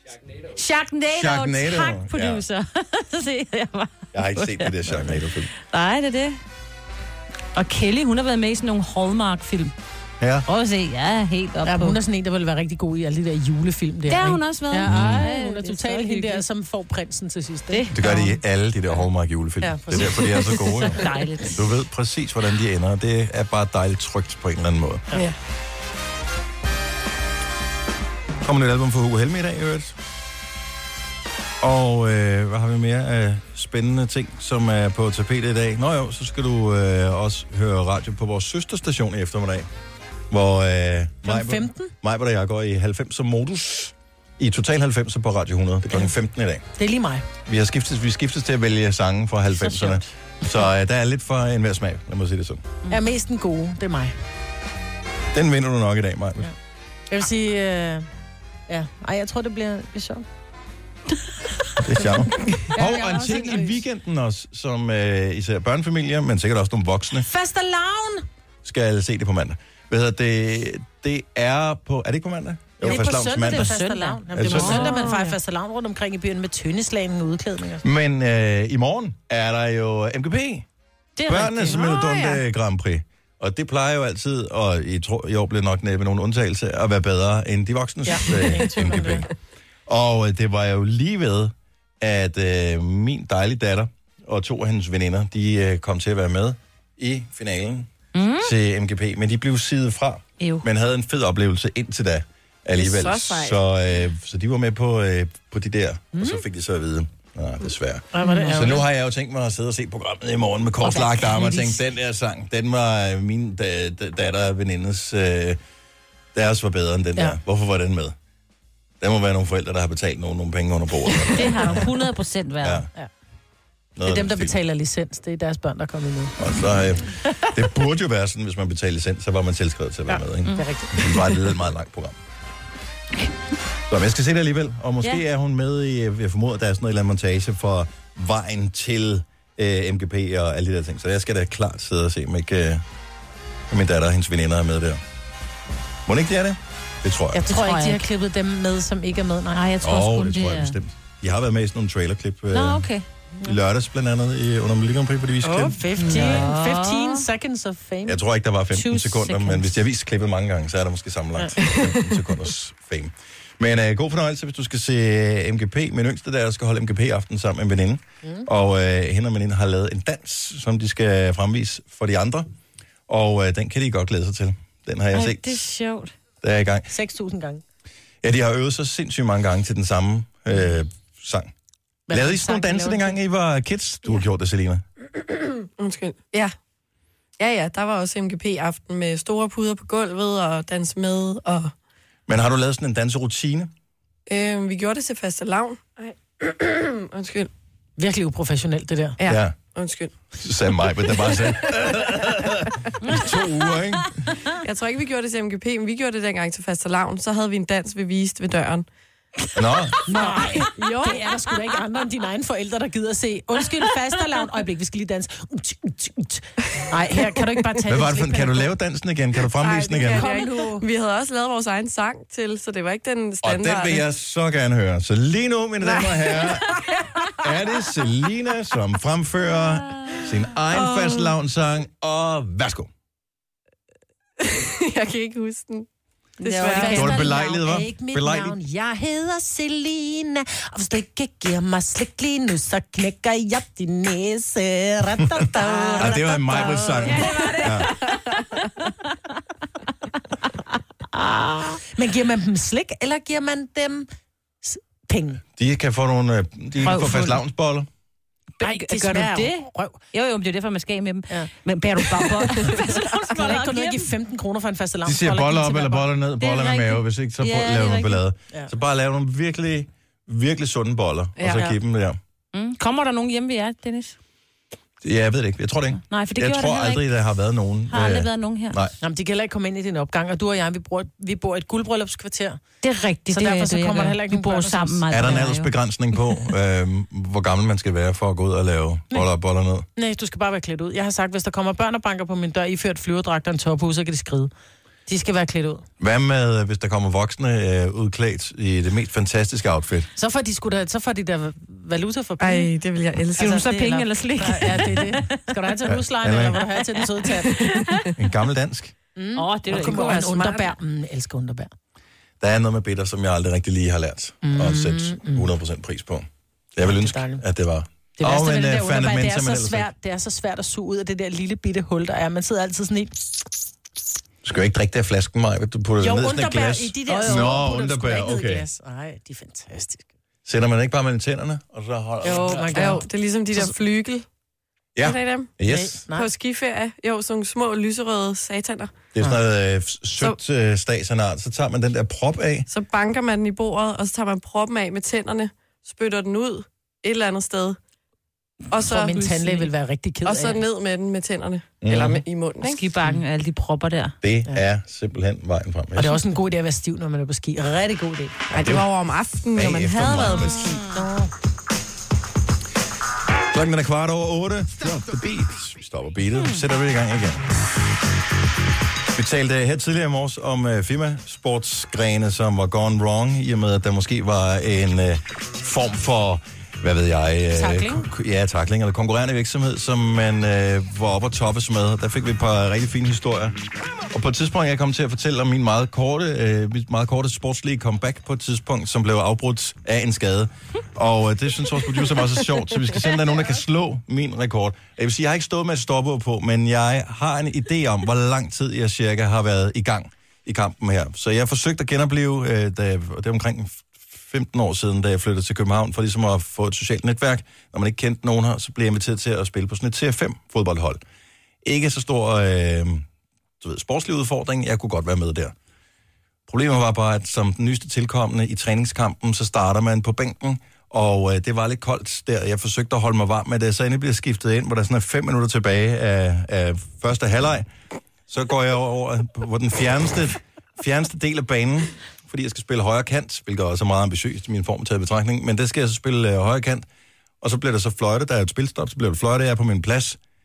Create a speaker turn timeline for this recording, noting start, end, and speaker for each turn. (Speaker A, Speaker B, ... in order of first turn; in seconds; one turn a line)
Speaker A: 0.5-6.4
Speaker B: 1.1-2.4
Speaker B: 4.1-5.5
Speaker A: 7.5-9.7
Speaker B: 10.2-10.4
Speaker A: 10.4-12.0
Speaker C: 11.6-18.3
Speaker A: 14.1-16.4
Speaker B: 14.8-15.3
Speaker A: 17.7-18.2
Speaker B: 17.9-25.1
Speaker C: 19.6-20.6
Speaker A: 20.9-21.6
Speaker B: 28.4-29.9
Speaker B: 31.6-39.7
Speaker B: 40.3-46.6
Speaker C: 41.2-41.9
Speaker C: 46.8-47.2
Speaker B: 47.5-52.6
Speaker C: 49.5-50.0
Speaker C: 52.9-54.1
Speaker B: 55.3-56.5
Speaker C: 57.1-58.1
Speaker C: 58.7-60.2
Speaker B: 61.8-67.3
Speaker C: 62.0-63.8
Speaker C: 67.1-68.2
Speaker B: 68.6-73.8
Speaker C: 72.8-77.8
Speaker A: 72.8-75.3
Speaker B: 74.3-74.9
Speaker D: 74.6-75.3
Speaker B: 77.8-80.7
Speaker A: 81.2-81.8
Speaker B: 81.3-89.3
Speaker D: 81.7-82.4
Speaker C: 88.0-89.2
Speaker B: 89.9-115.6
Speaker A: 98.1-98.5
Speaker A: 100.4-100.6
Speaker D: 102.7-103.6
Speaker C: 106.1-106.4
Speaker C: 108.1-108.8
Speaker A: 108.2-108.7
Speaker C: 110.9-111.7
Speaker B: 116.3-118.1
Speaker B: 119.0-121.9
Speaker A: 121.3-122.9
Speaker B: 122.6-122.9
Speaker B: 124.0-124.5
Speaker C: 124.0-126.3
Speaker B: 126.4-132.2
Speaker C: 130.1-131.2
Speaker B: 133.9-142.8
Speaker B: 143.7-145.0
Speaker B: 146.1-147.4
Speaker C: 147.3-149.6
Speaker A: 147.5-148.0
Speaker A: 149.5-150.8
Speaker B: 149.8-152.9
Speaker A: 152.5-153.0
Speaker B: 153.4-156.5
Speaker C: 155.4-158.2
Speaker A: 156.0-157.2
Speaker B: 158.1-172.5
Speaker A: 158.7-159.7
Speaker D: 161.6-162.0
Speaker B: 173.1-175.6
Speaker A: 175.1-176.1
Speaker B: 176.4-176.9
Speaker C: 176.9-177.6
Speaker B: 178.2-181.5
Speaker C: 182.1-183.2
Speaker B: 182.1-184.8
Speaker D: 185.8-186.5
Speaker D: 187.4-191.7
Speaker B: 192.3-193.7
Speaker D: 194.3-197.5
Speaker C: 198.0-199.2
Speaker D: 199.2-200.1
Speaker B: 199.2-199.6
Speaker B: 200.4-204.2
Speaker D: 201.1-201.6
Speaker D: 204.6-208.9
Speaker B: 209.5-209.9
Speaker C: 210.1-218.7
Speaker D: 210.2-211.2
Speaker B: 217.8-220.3
Speaker D: 219.5-224.0
Speaker C: 220.0-220.9
Speaker B: 223.4-232.9
Speaker D: 225.8-226.7
Speaker D: 230.7-231.3
Speaker D: 234.4-235.8
Speaker D: 236.4-237.2
Speaker A: 236.4-237.3
Speaker C: 236.7-247.7
Speaker B: 236.8-238.6
Speaker B: 245.4-247.9
Speaker D: 245.6-246.1
Speaker A: 247.0-248.2
Speaker A: 251.2-251.6
Speaker C: 251.6-254.1
Speaker C: 254.6-255.4
Speaker B: 255.6-257.9
Speaker A: 256.8-257.4
Speaker A: 258.6-264.1
Speaker C: 258.6-260.0
Speaker C: 262.3-266.1
Speaker B: 265.0-272.2
Speaker A: 266.4-268.2
Speaker D: 271.4-271.7
Speaker A: 272.5-274.1
Speaker B: 275.0-278.9
Speaker A: 276.0-277.1
Speaker A: 277.9-278.8
Speaker C: 279.0-282.6
Speaker A: 282.8-285.7
Speaker C: 283.3-285.0
Speaker B: 285.1-289.9
Speaker C: 289.9-294.5
Speaker C: 295.1-295.8
Speaker B: 296.0-300.1
Speaker C: 300.1-302.7
Speaker D: 302.4-303.6
Speaker A: 303.4-305.4
Speaker C: 303.4-307.6
Speaker B: 305.9-306.6
Speaker D: 307.5-308.1
Speaker B: 308.2-308.9
Speaker C: 309.1-311.7
Speaker A: 309.4-310.4
Speaker D: 309.7-310.7
Speaker B: 312.4-319.9
Speaker C: 314.4-315.5
Speaker C: 316.8-317.4
Speaker C: 318.2-323.5
Speaker B: 324.4-328.6
Speaker C: 326.0-330.1
Speaker A: 327.1-327.4
Speaker B: 330.4-332.9
Speaker C: 332.2-333.7
Speaker D: 332.5-334.2
Speaker B: 334.9-336.0
Speaker D: 335.0-335.5
Speaker C: 335.6-336.3
Speaker D: 336.1-338.9
Speaker B: 339.1-342.7
Speaker D: 342.7-347.8
Speaker D: 348.7-349.4
Speaker C: 348.8-350.6
Speaker A: 349.3-349.7
Speaker D: 350.2-352.8
Speaker B: 351.8-352.2
Speaker A: 352.6-354.1
Speaker B: 354.2-356.2
Speaker C: 355.9-358.5
Speaker D: 358.5-360.8
Speaker B: 358.5-358.9
Speaker B: 359.5-360.8
Speaker A: 360.0-360.9
Speaker C: 360.9-361.3
Speaker B: 363.5-367.4
Speaker B: 369.1-383.6
Speaker C: 377.5-378.1
Speaker B: 384.1-411.0
Speaker B: 411.6-413.0
Speaker B: 413.6-415.5
Speaker B: 416.5-427.7
Speaker B: 428.3-436.9
Speaker B: 437.4-440.2